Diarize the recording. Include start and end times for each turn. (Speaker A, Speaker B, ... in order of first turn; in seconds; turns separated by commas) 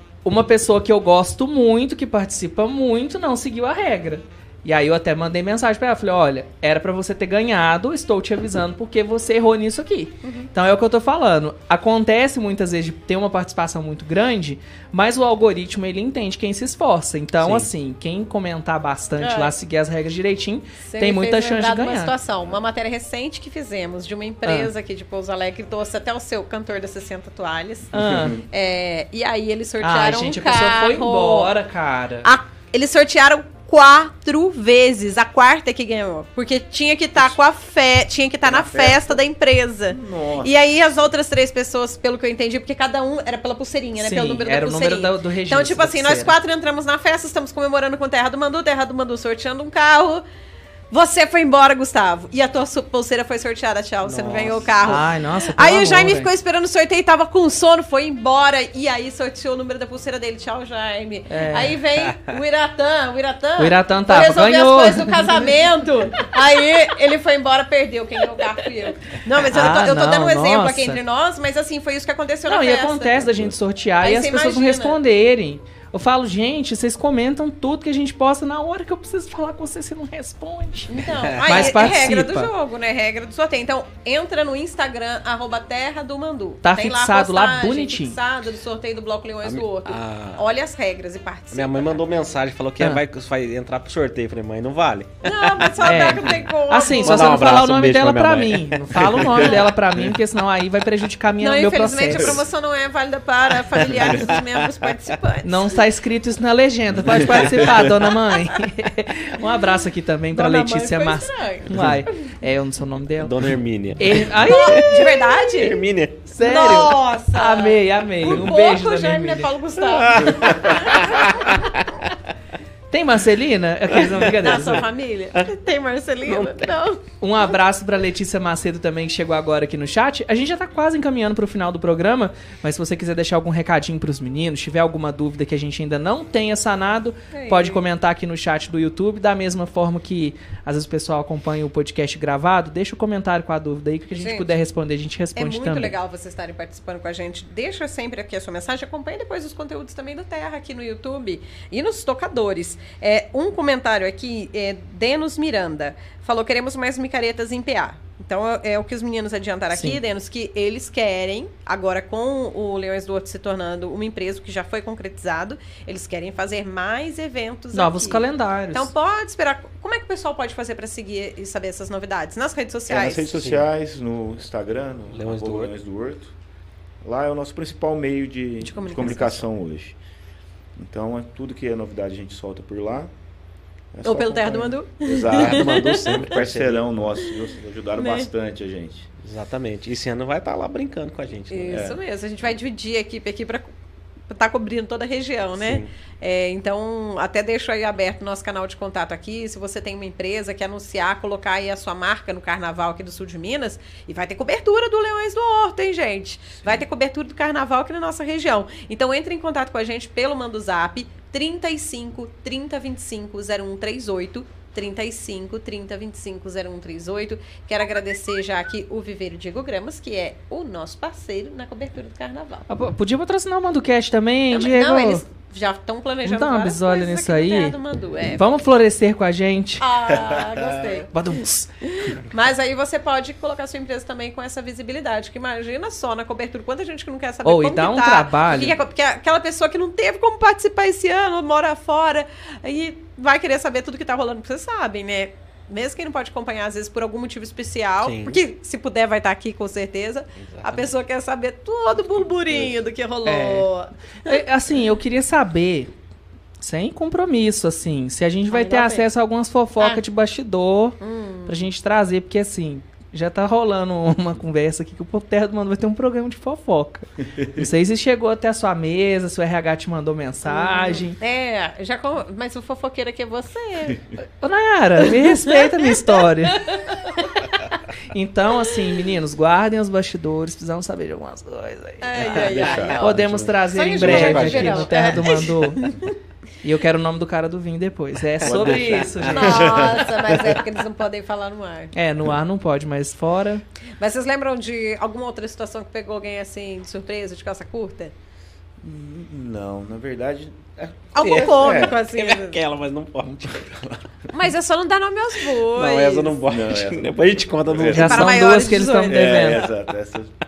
Speaker A: 0.2-22.1, Speaker B: 10.2-10.5, Speaker C: 17.4-17.7, Speaker B: 19.2-19.6, Speaker B: 20.8-31.5, Speaker A: 24.4-24.7, Speaker A: 27.9-28.4, Speaker D: 27.9-28.4, Speaker A: 29.8-32.3, Speaker B: 32.2-50.2, Speaker D: 38.4-39.2, Speaker D: 39.9-40.5, Speaker A: 44.0-46.4, Speaker B: 50.9-73.3, Speaker C: 54.0-54.9, Speaker A: 54.8-56.3, Speaker A: 61.3-61.8, Speaker A: 63.6-65.4, Speaker A: 69.5-71.0, Speaker A: 72.5-82.5, Speaker B: 74.0-75.0, Speaker B: 80.9-92.0, Speaker C: 81.2-81.7, Speaker A: 86.6-88.2, Speaker C: 89.4-90.5, Speaker C: 91.5-96.3, Speaker B: 95.2-97.4, Speaker A: 95.8-102.4, Speaker C: 97.0-99.6, Speaker B: 101.4-105.8, Speaker C: 103.8-105.0, Speaker A: 105.4-114.9, Speaker D: 107.0-108.0, Speaker B: 110.3-112.0, Speaker C: 113.2-116.2, Speaker B: 114.4-115.8, Speaker A: 116.3-119.5, Speaker B: 116.4-121.6, Speaker C: 119.9-122.1, Speaker D: 120.2-121.0, Speaker A: 122.9-124.8, Speaker B: 124.3-127.5, Speaker C: 126.2-126.7, Speaker A: 127.2-145.9, Speaker B: 137.3-137.8, Speaker B: 144.1-144.6, Speaker B: 145.4-173.4, Speaker A: 159.7-160.0, Speaker A: 167.7-168.9, Speaker D: 172.9-176.3, Speaker C: 173.4-173.7, Speaker C: 175.1-175.7, Speaker D: 177.0-180.0, Speaker B: 178.6-179.5, Speaker D: 180.8-183.1, Speaker D: 183.9-189.1, Speaker B: 184.0-186.3, Speaker C: 185.3-186.9, Speaker B: 188.0-188.3, Speaker C: 189.2-191.9, Speaker B: 191.5-193.7, Speaker D: 191.7-192.0, Speaker B: 194.3-222.7, Speaker C: 195.6-195.9, Speaker A: 222.7-225.2, Speaker B: 224.5-228.5, Speaker A: 226.2-227.8, Speaker A: 228.4-229.9, Speaker B: 229.8-231.1, Speaker D: 230.1-230.9, Speaker A: 231.1-232.1, Speaker B: 232.0-254.4, Speaker A: 237.4-238.8, Speaker C: 248.0-248.4, Speaker C: 250.4-250.9, Speaker A: 253.3-253.7, Speaker A: 254.2-255.9, Speaker A: 256.6-271.2, Speaker B: 258.5-259.1, Speaker B: 261.0-261.7, Speaker B: 270.5-274.1, Speaker A: 274.4-276.9, Speaker B: 275.1-277.4, Speaker A: 278.1-282.1, Speaker B: 282.0-286.1, Speaker D: 282.2-283.6, Speaker C: 282.2-283.0, Speaker A: 283.0-285.8, Speaker C: 284.0-285.0, Speaker D: 284.2-284.7, Speaker A: 286.6-289.8, Speaker C: 288.4-289.6, Speaker D: 288.4-290.6, Speaker B: 289.3-291.9, Speaker A: 291.9-293.6, Speaker B: 294.0-298.1, Speaker D: 298.8-302.0, Speaker C: 301.1-303.8, Speaker B: 301.1-302.6, Speaker D: 303.3-304.0, Speaker B: 304.3-306.4, Speaker C: 305.4-308.5, Speaker D: 306.4-310.3, Speaker A: 307.9-309.7, Speaker B: 307.9-309.7